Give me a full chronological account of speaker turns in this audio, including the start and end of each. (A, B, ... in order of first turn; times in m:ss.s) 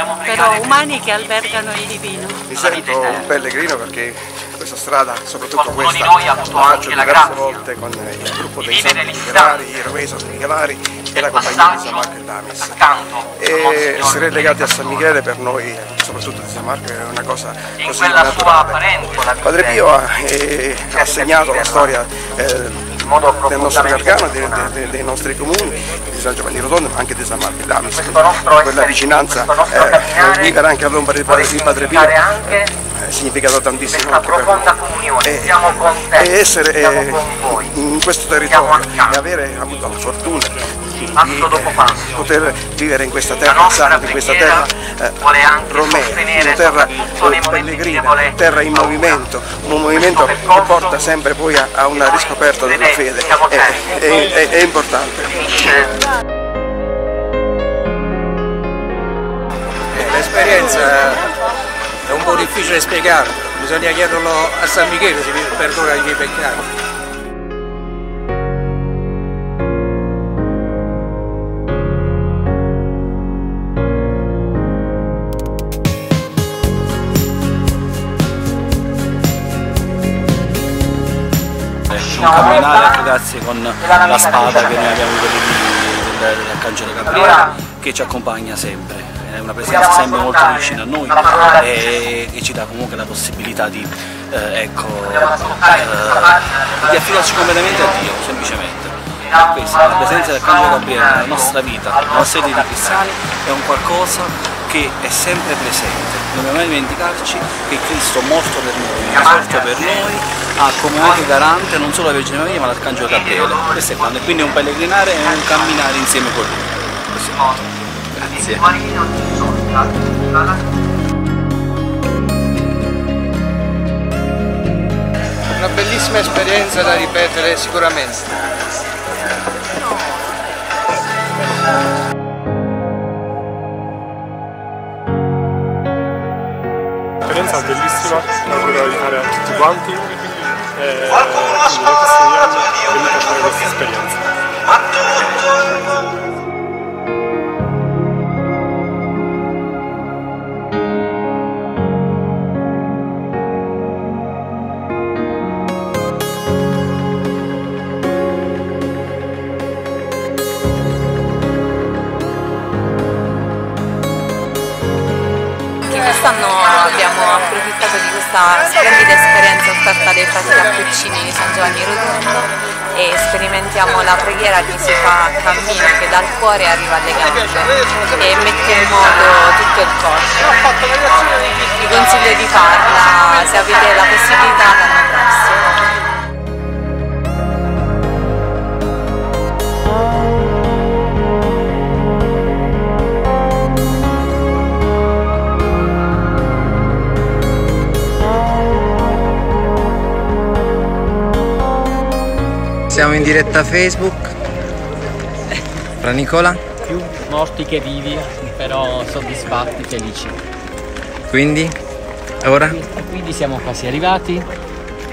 0:00.2-0:02.4 A
0:02.5-0:55.8 B
0:59.9-1:01.3 C
1:02.1-1:06.7 C
1:21.9-1:58.7 D
2:05.5-2:08.3 C
2:17.3-2:24.3 E
2:45.9-3:00.5 F
3:01.7-3:05.8 F
3:22.9-3:24.3 G
3:26.0-3:26.6 G
3:26.8-3:30.4 H
3:31.3-3:31.8 G
3:32.4-3:32.8 G
3:32.6-3:34.5 H